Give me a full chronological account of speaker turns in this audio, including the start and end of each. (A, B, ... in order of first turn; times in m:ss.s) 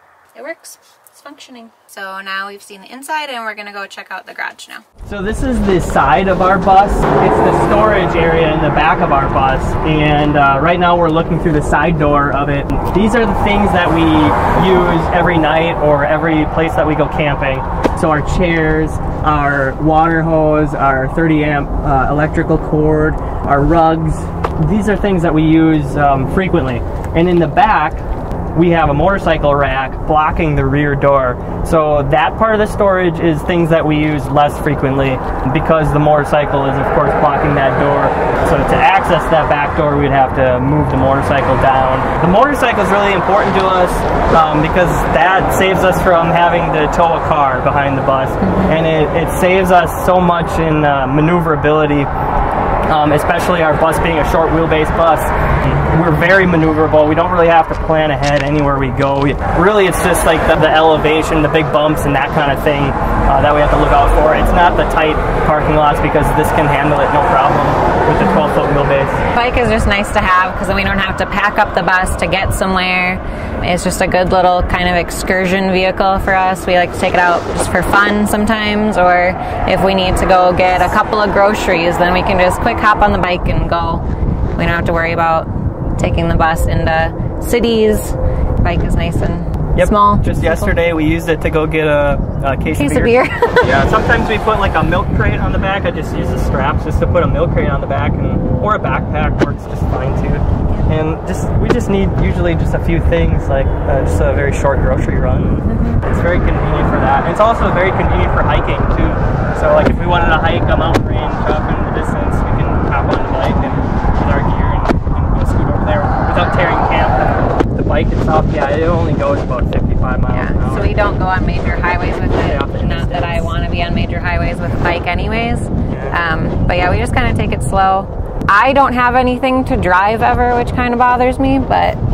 0:00.3-0:04.8 A
0:05.0-0:52.1 B
0:48.4-0:48.8 A
0:52.9-1:09.2 B
1:08.2-1:08.5 A
1:09.3-1:24.0 A
1:24.6-1:30.7 A
1:29.7-2:01.0 B
1:32.7-1:33.8 A
1:45.6-1:46.0 A
2:00.3-2:12.0 A
2:02.4-2:03.5 B
2:05.9-2:06.2 B